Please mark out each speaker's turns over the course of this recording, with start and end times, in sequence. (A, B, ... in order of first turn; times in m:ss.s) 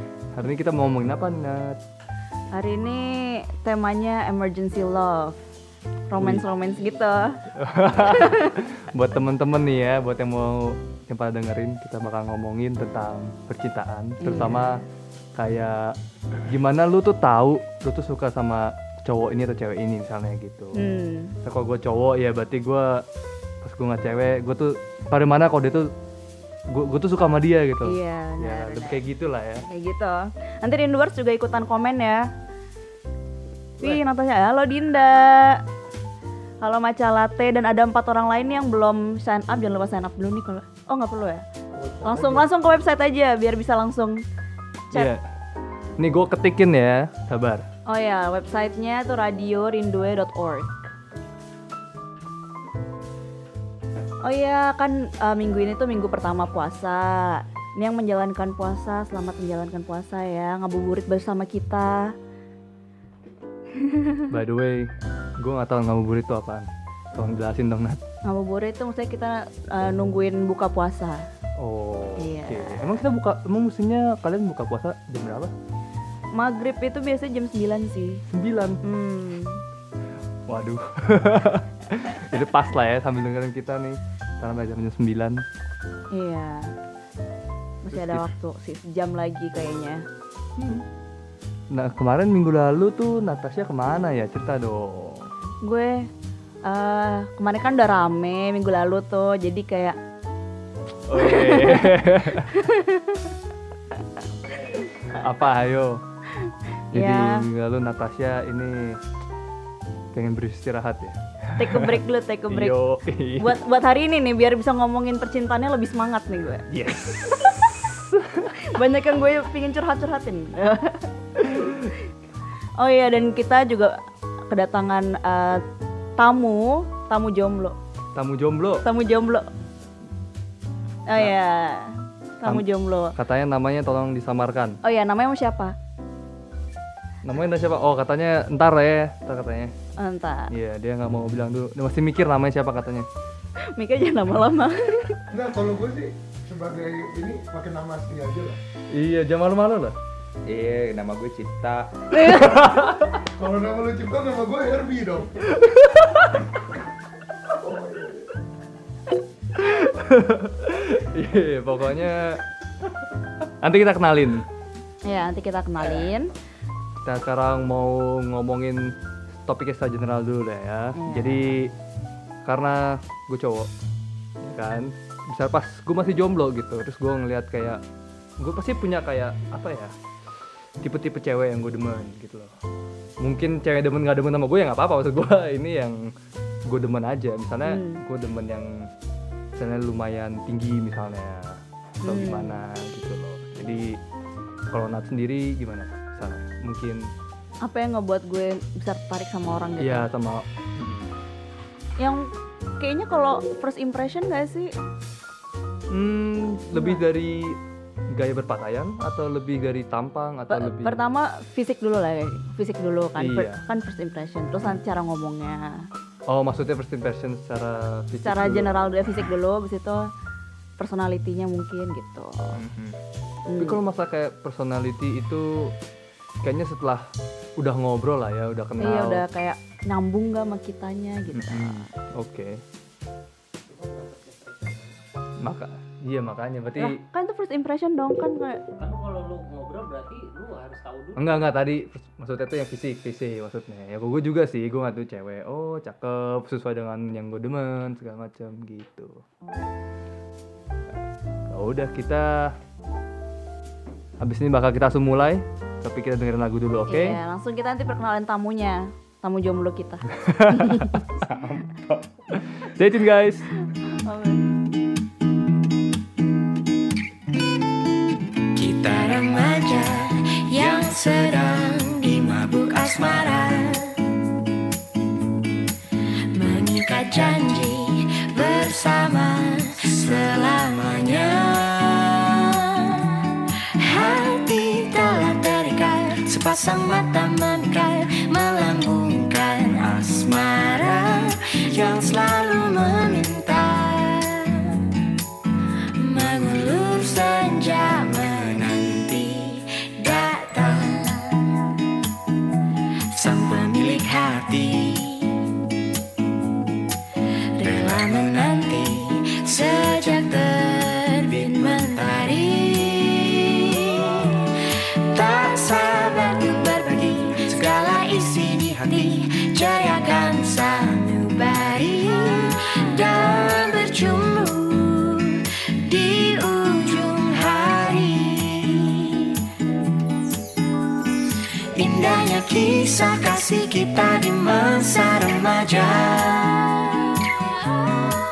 0:00.4-0:01.8 A
0:02.5-0:05.4 B
0:06.1-0:07.4 B
0:07.6-0:14.8 A
0:08.1-0:08.6 B
0:14.2-0:14.8 B
0:15.4-0:15.9 A
0:16.5-0:20.8 A
0:20.8-0:21.3 B
0:21.4-0:23.0 A
0:23.6-0:25.9 A
0:26.7-0:29.6 A
0:27.9-0:29.0 B
0:29.7-0:32.3 B
0:33.8-0:35.6 B
0:36.6-0:41.4 B
0:41.8-0:42.5 C
0:42.0-0:44.2 B
0:44.9-0:45.2 A
0:46.0-0:47.7 A
0:47.9-0:50.7 B
0:54.2-1:02.1 B
1:03.8-1:04.3 B
1:04.3-1:08.0 A
1:08.2-1:11.2 B
1:11.6-1:15.5 A
1:12.2-1:12.8 B
1:16.4-1:18.2 B
1:18.3-1:18.8 A
1:18.8-1:19.6 B
1:20.5-1:25.4 A
1:26.1-1:26.7 B
1:27.8-1:30.0 B
1:27.9-1:28.3 A
1:30.6-1:30.8 A
1:31.7-1:35.3 A
1:35.6-1:36.1 B
1:36.6-1:40.0 B
1:41.1-1:42.5 A
1:41.2-1:43.3 B
1:45.2-1:46.0 A
1:46.9-1:47.4 B
1:46.9-1:49.0 A
1:50.1-1:53.6 A
1:51.6-1:52.8 B
1:53.4-1:56.7 B
1:56.7-1:58.5 A
1:58.8-2:01.9 B
2:02.8-2:04.0 B
2:04.5-2:05.6 B
2:06.2-2:07.8 B
2:08.2-2:08.8 A
2:08.8-2:09.5 B
2:11.1-2:13.1 B
2:13.2-2:14.8 A
2:14.8-2:15.8 B
2:17.2-2:19.7 A
2:20.0-2:20.5 B
2:20.5-2:23.1 A
2:23.7-2:25.2 B
2:25.3-2:28.6 C
2:28.9-2:30.0 A
2:30.5-2:32.0 D
2:32.2-2:33.1 A
2:33.3-2:35.5 C
2:35.6-2:36.3 A
2:37.5-2:38.2 C
2:39.6-2:42.4 A
2:43.6-2:44.4 A
2:45.1-2:46.3 B
2:47.0-2:48.9 A
2:49.5-2:51.7 A
2:51.0-2:51.5 B
2:52.4-2:53.7 A
2:54.4-2:57.8 A
2:58.4-2:59.9 A
3:00.8-3:02.5 A
3:03.2-3:06.0 A
3:06.7-3:08.9 A
3:07.7-3:08.0 B
3:09.6-3:14.0 A
3:12.0-3:12.6 B
3:14.7-3:17.1 A
3:17.6-3:20.1 B
3:19.8-3:21.1 A
3:22.0-3:24.7 B
3:25.9-3:27.6 A
3:26.7-3:27.0 B
3:28.1-3:31.0 A
3:30.5-3:35.9 B
3:33.2-3:33.6 A
3:36.3-3:38.7 A
3:38.2-3:40.0 B
3:40.8-3:42.6 B
3:42.6-3:43.0 A
3:43.5-3:43.8 B
3:43.6-3:45.8 A
3:46.4-3:49.2 A
3:48.8-3:51.9 B
3:51.3-3:52.6 A
3:53.7-3:55.0 E
3:55.4-3:57.0 A
3:56.8-3:58.6 B
3:58.8-4:01.4 E
4:01.2-4:09.2 A
4:11.5-4:12.5 A
4:14.2-4:17.2 A
4:16.9-4:21.0 B
4:20.2-4:21.0 A
4:21.2-4:22.0 D
4:22.4-4:23.5 A
4:23.8-4:24.5 B
4:28.6-4:33.9 F
4:36.3-4:43.0 F
4:43.8-4:54.8 F
4:56.0-5:01.5 F
5:03.1-5:05.4 F
5:07.6-5:14.4 F
5:15.1-5:29.4 F
5:31.8-5:36.8 F